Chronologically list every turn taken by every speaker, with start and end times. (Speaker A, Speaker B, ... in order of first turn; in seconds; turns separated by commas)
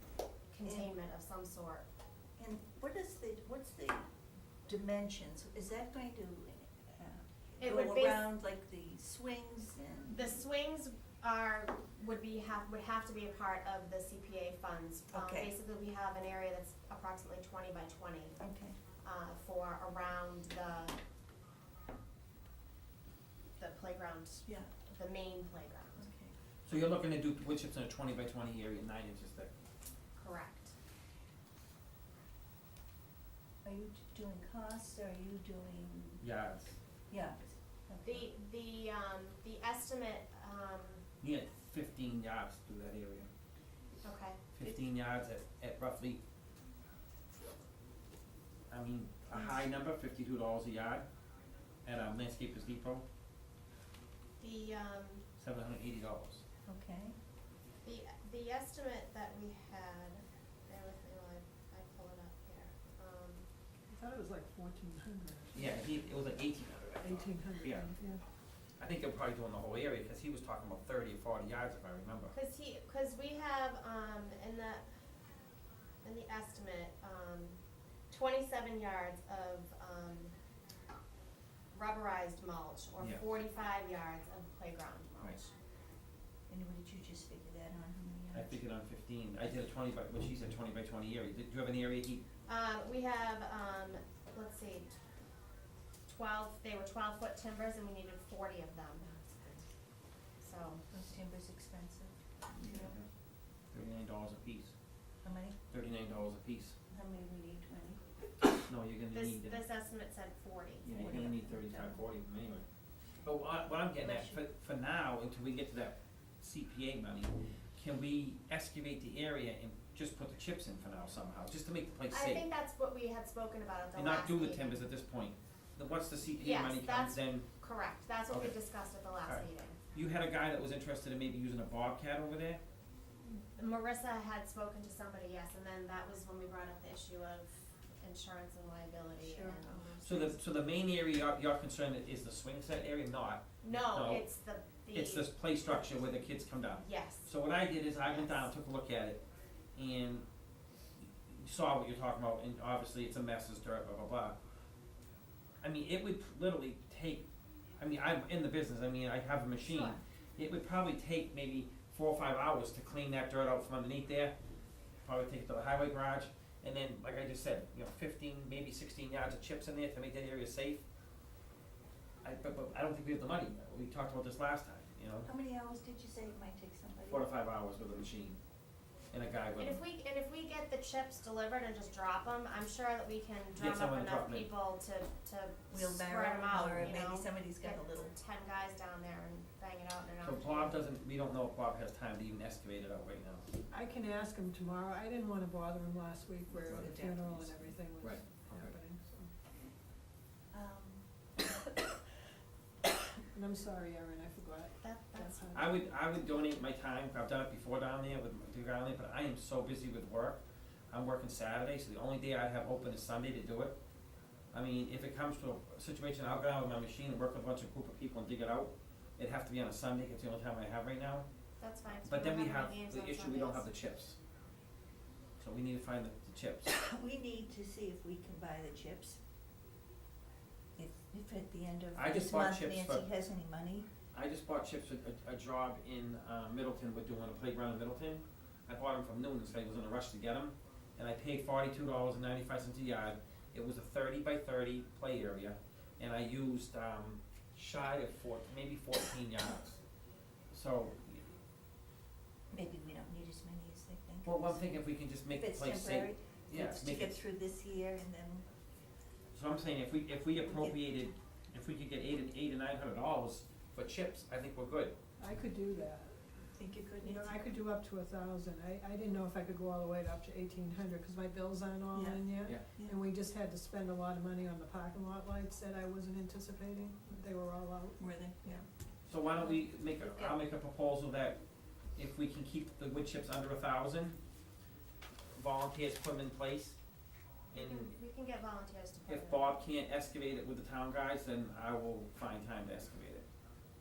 Speaker A: 0.5-1.8, Speaker B: 0.6-0.9, Speaker B: 2.4-4.1, Speaker B: 4.7-10.4, Speaker A: 7.6-8.2, Speaker A: 10.1-18.4, Speaker B: 15.1-15.5, Speaker B: 18.4-18.8, Speaker A: 19.0-21.0, Speaker A: 23.6-26.1, Speaker B: 26.0-26.3, Speaker C: 26.7-29.5, Speaker A: 30.2-30.7, Speaker B: 33.6-36.2, Speaker C: 36.2-36.8, Speaker B: 37.1-38.2, Speaker A: 38.0-41.0, Speaker C: 41.2-43.3, Speaker A: 44.0-44.4, Speaker C: 44.5-46.2, Speaker C: 48.7-51.0, Speaker C: 51.9-53.0, Speaker A: 54.4-55.2, Speaker C: 55.4-56.4, Speaker B: 56.7-57.1, Speaker A: 57.8-63.5, Speaker D: 63.9-65.7, Speaker C: 65.5-67.9, Speaker D: 67.0-68.2, Speaker C: 68.8-72.3, Speaker A: 72.3-74.8, Speaker A: 76.0-77.6, Speaker A: 78.1-80.3, Speaker A: 81.7-85.5, Speaker B: 86.5-88.6, Speaker C: 88.3-92.2, Speaker A: 92.5-94.9, Speaker A: 96.1-99.1, Speaker A: 100.4-100.8, Speaker B: 100.9-102.9, Speaker C: 102.5-103.0, Speaker C: 103.7-104.7, Speaker B: 105.2-105.6, Speaker C: 105.7-106.7, Speaker B: 106.9-108.0, Speaker C: 108.7-109.6, Speaker A: 109.1-110.9, Speaker C: 110.8-112.6, Speaker B: 110.9-112.0, Speaker C: 113.2-122.4, Speaker B: 114.0-114.4, Speaker A: 122.1-124.8, Speaker C: 123.9-127.5, Speaker A: 126.4-129.8, Speaker C: 129.3-132.6, Speaker A: 133.5-140.3, Speaker B: 139.2-140.2, Speaker C: 140.0-144.2, Speaker A: 143.6-145.3, Speaker C: 144.9-149.2, Speaker A: 146.8-147.3, Speaker A: 148.1-148.5, Speaker C: 149.8-150.2, Speaker C: 151.3-154.4, Speaker C: 155.6-157.2, Speaker C: 157.8-164.3, Speaker A: 159.6-160.0, Speaker C: 165.0-170.8, Speaker C: 172.2-175.3, Speaker B: 175.2-177.2, Speaker C: 177.1-178.4, Speaker C: 179.1-179.8, Speaker A: 179.6-190.8, Speaker C: 183.6-184.5, Speaker B: 185.7-188.1, Speaker C: 190.2-193.4, Speaker D: 193.7-199.3, Speaker B: 196.5-197.8, Speaker C: 198.0-198.8, Speaker B: 200.5-201.0, Speaker D: 203.3-205.8, Speaker A: 204.8-205.4, Speaker C: 205.5-210.4, Speaker C: 210.9-213.7, Speaker C: 214.5-221.2, Speaker A: 221.6-223.7, Speaker C: 222.0-224.2, Speaker C: 225.4-226.7, Speaker B: 226.7-229.2, Speaker B: 230.8-233.8, Speaker C: 231.9-233.0, Speaker C: 234.1-249.8, Speaker C: 250.5-251.2, Speaker B: 252.5-254.6, Speaker C: 254.2-257.2, Speaker B: 255.3-258.4, Speaker C: 259.3-264.9, Speaker B: 260.5-260.8, Speaker D: 265.2-266.1, Speaker B: 266.6-267.4, Speaker D: 267.0-278.0, Speaker B: 271.9-273.0, Speaker B: 278.0-278.6, Speaker C: 279.1-281.4, Speaker B: 279.4-280.4, Speaker C: 281.9-284.2, Speaker C: 285.4-286.8, Speaker C: 287.5-287.9, Speaker A: 287.5-289.6, Speaker C: 289.1-293.2